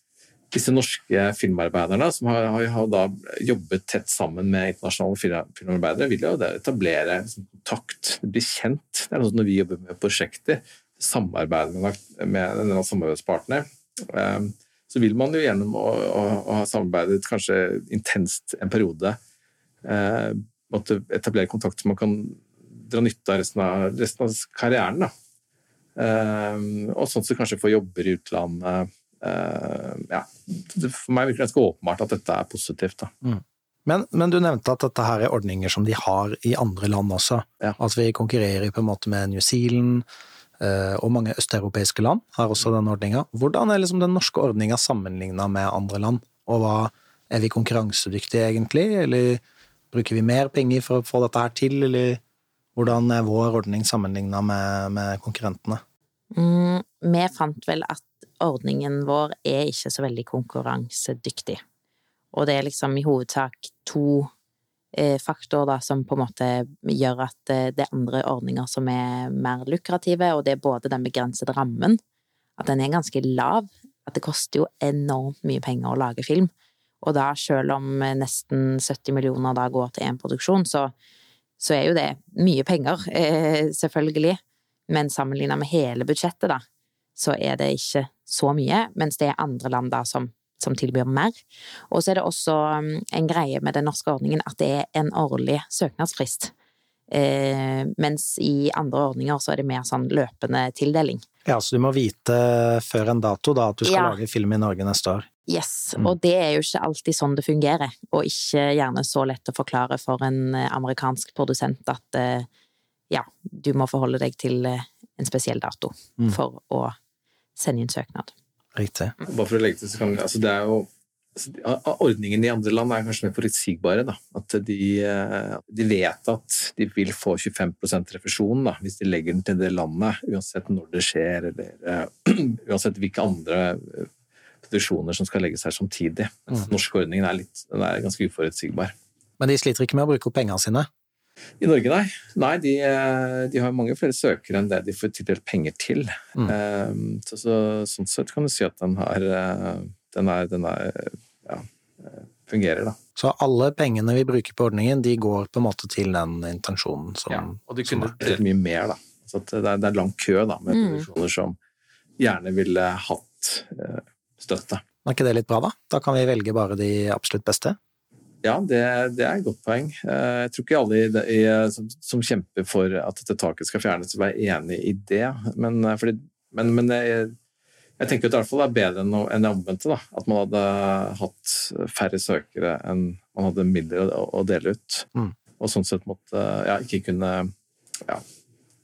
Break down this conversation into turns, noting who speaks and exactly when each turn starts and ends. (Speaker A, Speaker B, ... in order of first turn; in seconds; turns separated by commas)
Speaker A: 0.5-19.2, Speaker A: 19.8-25.1, Speaker A: 25.9-33.1, Speaker B: 33.2-40.0, Speaker B: 40.6-52.2, Speaker B: 52.7-55.8, Speaker C: 56.3-61.6, Speaker C: 62.3-64.3, Speaker C: 64.9-72.0, Speaker C: 72.6-80.9, Speaker C: 81.6-86.6, Speaker C: 87.2-91.4, Speaker C: 91.9-96.5, Speaker C: 97.1-101.2, Speaker B: 101.4-105.3, Speaker C: 103.8-104.2, Speaker C: 105.5-112.5, Speaker C: 113.1-117.0, Speaker C: 117.6-118.3, Speaker B: 118.7-119.2, Speaker A: 119.2-134.1, Speaker A: 134.6-138.9, Speaker B: 139.4-140.9, Speaker A: 141.6-153.0, Speaker B: 153.2-158.3, Speaker A: 157.3-161.6, Speaker C: 160.7-161.1, Speaker A: 162.2-164.8, Speaker B: 165.0-167.8, Speaker A: 168.4-177.3, Speaker A: 178.0-188.2